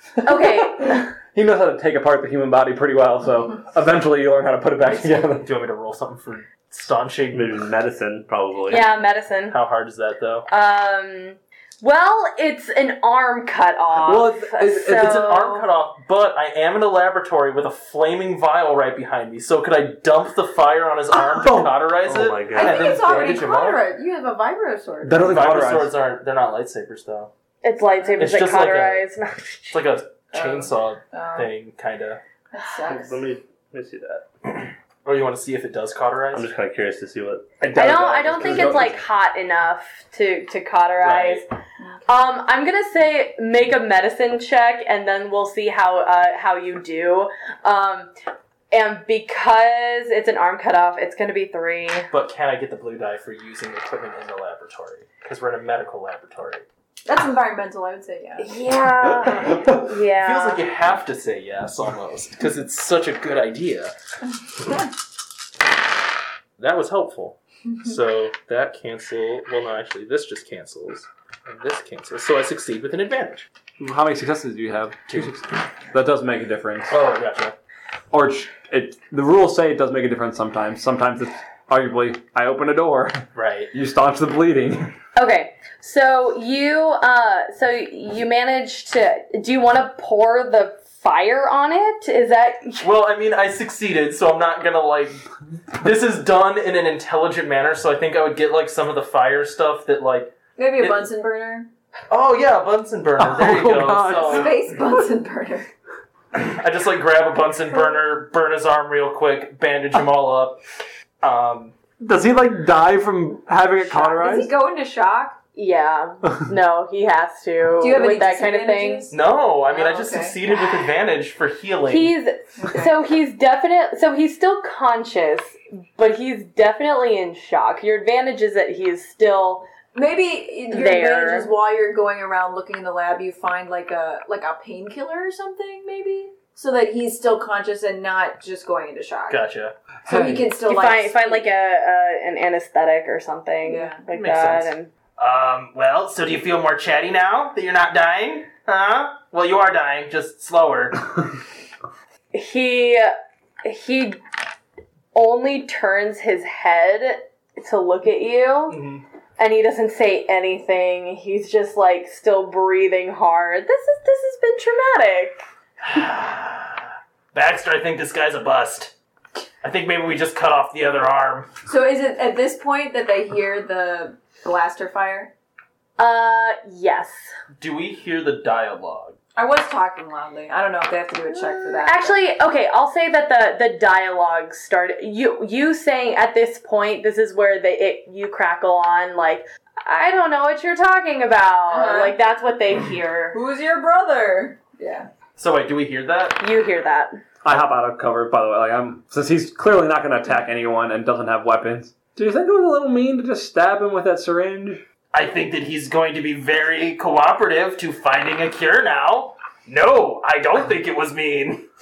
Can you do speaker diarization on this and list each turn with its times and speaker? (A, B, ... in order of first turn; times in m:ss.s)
0:00.2-0:01.1 A
0:01.3-0:05.5 B
0:05.0-0:07.6 C
0:07.3-0:08.8 D
0:08.7-0:09.6 A
0:09.5-0:10.5 C
0:10.5-0:15.7 A
0:14.0-0:15.2 B
0:15.0-0:23.8 C
0:21.3-0:21.7 B
0:22.0-0:23.1 D
0:22.5-0:25.3 E
0:25.0-0:25.9 B
0:25.2-0:27.3 C
0:27.6-0:29.8 A
0:28.2-0:29.0 C
0:29.7-0:32.2 C
0:30.3-0:31.5 E
0:32.5-0:33.2 E
0:32.8-0:34.2 D
0:35.0-0:36.5 C
0:36.3-0:37.5 D
0:37.6-0:39.0 B
0:37.7-0:41.5 A
0:38.3-0:38.8 C
0:41.0-0:41.4 C
0:42.0-0:48.1 A
0:48.7-0:52.1 A
0:52.1-0:56.6 C
0:57.0-0:58.6 E
0:58.4-1:00.6 A
0:59.3-0:59.8 B
1:00.2-1:03.9 C
1:06.6-1:13.4 C
1:13.8-1:16.9 B
1:16.9-1:17.5 C
1:18.1-1:24.9 B
1:23.3-1:23.7 C
1:25.1-1:32.9 A
1:32.8-1:35.2 C
1:35.8-1:41.0 C
1:40.6-1:41.7 E
1:42.1-1:44.5 C
1:43.2-1:44.5 B
1:44.1-1:45.7 E
1:46.3-1:50.6 C
1:51.2-1:51.7 C
1:52.0-1:54.5 B
1:53.8-1:55.4 E
1:55.5-1:59.1 A
1:57.8-1:59.2 E
1:59.1-2:02.1 C
1:59.7-2:00.5 E
2:01.9-2:09.7 A
2:02.6-2:03.0 E
2:09.9-2:19.4 E
2:10.7-2:11.5 A
2:19.3-2:19.7 C
2:20.0-2:20.5 B
2:20.1-2:21.4 E
2:20.6-2:24.9 A
2:23.6-2:24.0 E
2:24.1-2:31.1 C
2:32.3-2:34.2 A
2:35.1-2:38.8 A
2:38.7-2:39.0 C
2:39.4-2:45.4 A
2:45.8-2:48.9 C
2:49.6-2:51.5 C
2:51.6-2:55.3 E
2:56.0-2:57.3 A
2:57.6-2:59.2 C
2:59.4-3:02.2 E
3:01.8-3:13.4 A
3:11.6-3:12.2 E
3:13.3-3:15.1 E
3:15.4-3:16.4 C
3:16.4-3:17.1 A
3:17.4-3:24.8 B
3:25.1-3:31.6 C